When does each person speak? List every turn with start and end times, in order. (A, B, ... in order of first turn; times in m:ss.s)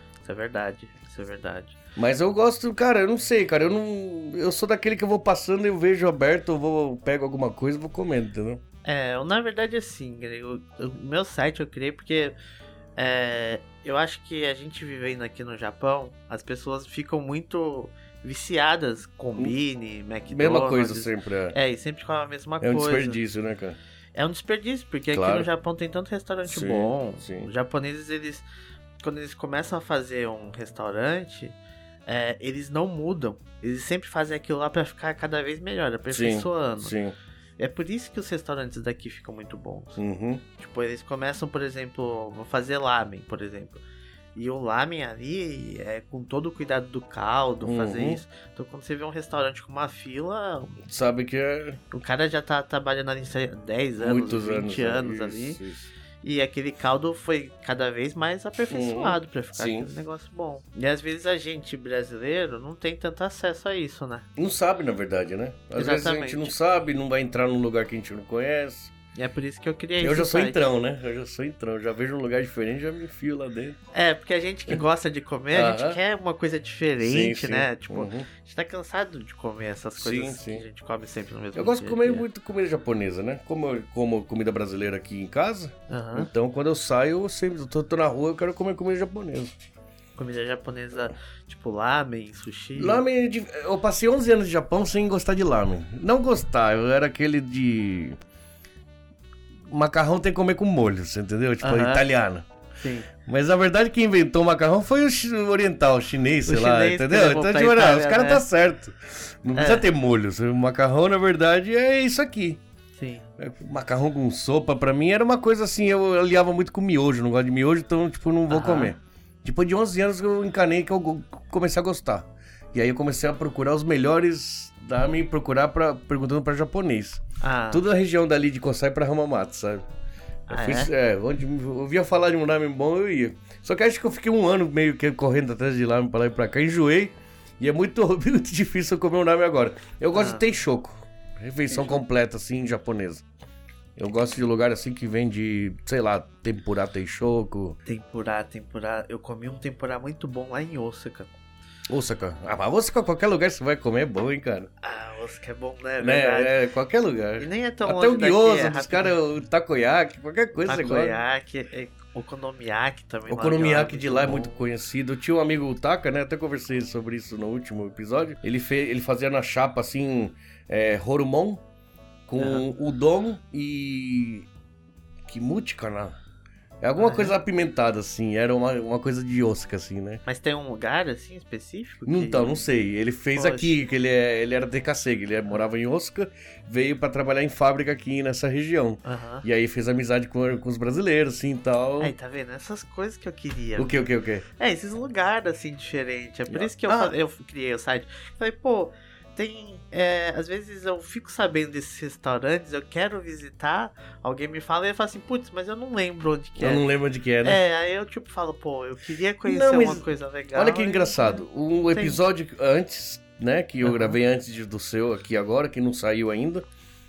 0:00.2-0:01.8 A
0:02.0-0:08.6 B
0:08.8-0:12.4 A
0:13.0-0:23.2 A
0:20.3-0:21.6 B
0:22.6-0:23.8 B
0:24.1-0:28.4 A
0:25.1-0:25.5 B
0:26.5-0:27.5 B
0:29.0-0:36.9 A
0:36.1-0:37.1 B
0:37.6-0:40.0 A
0:40.0-0:40.4 B
0:40.6-0:43.8 A
0:44.3-0:50.8 A
0:47.6-0:48.2 B
0:50.8-0:51.8 B
0:51.9-0:55.6 A
0:54.0-0:55.9 B
0:56.2-1:04.3 A
0:58.7-0:59.9 B
1:04.4-1:08.9 B
1:05.7-1:06.5 A
1:09.1-1:10.6 A
1:10.0-1:13.8 B
1:13.9-1:22.2 A
1:15.5-1:16.0 B
1:17.0-1:18.3 B
1:20.0-1:20.6 B
1:21.5-1:29.5 B
1:25.9-1:26.3 A
1:30.2-1:33.0 A
1:32.8-1:38.2 B
1:39.7-1:42.5 B
1:41.6-1:42.0 A
1:42.8-1:43.1 A
1:43.2-1:52.6 B
1:46.4-1:48.4 A
1:49.5-1:49.9 A
1:53.0-1:53.2 A
1:53.4-2:09.8 B
1:58.5-1:58.9 A
2:07.4-2:07.8 A
2:10.5-2:10.9 A
2:10.5-2:23.2 B
2:20.1-2:20.4 A
2:21.7-2:22.0 A
2:24.0-2:27.8 B
2:27.8-2:31.3 A
2:31.9-2:34.7 B
2:34.8-2:36.5 A
2:36.0-2:41.2 B
2:37.4-2:39.2 A
2:40.7-2:44.6 A
2:43.3-2:51.6 B
2:52.3-2:54.5 B
2:52.4-2:52.6 A
2:55.3-2:56.2 B
2:56.8-3:00.2 B
2:57.0-2:57.3 A
3:00.2-3:02.6 A
3:02.0-3:12.1 B
3:03.3-3:03.7 A
3:09.0-3:09.4 A
3:12.0-3:13.9 A
3:13.8-3:14.4 B
3:14.6-3:26.9 A
3:16.5-3:17.1 B
3:26.6-3:27.6 B
3:27.4-3:32.2 A
3:29.4-3:36.6 B
3:33.8-3:34.2 A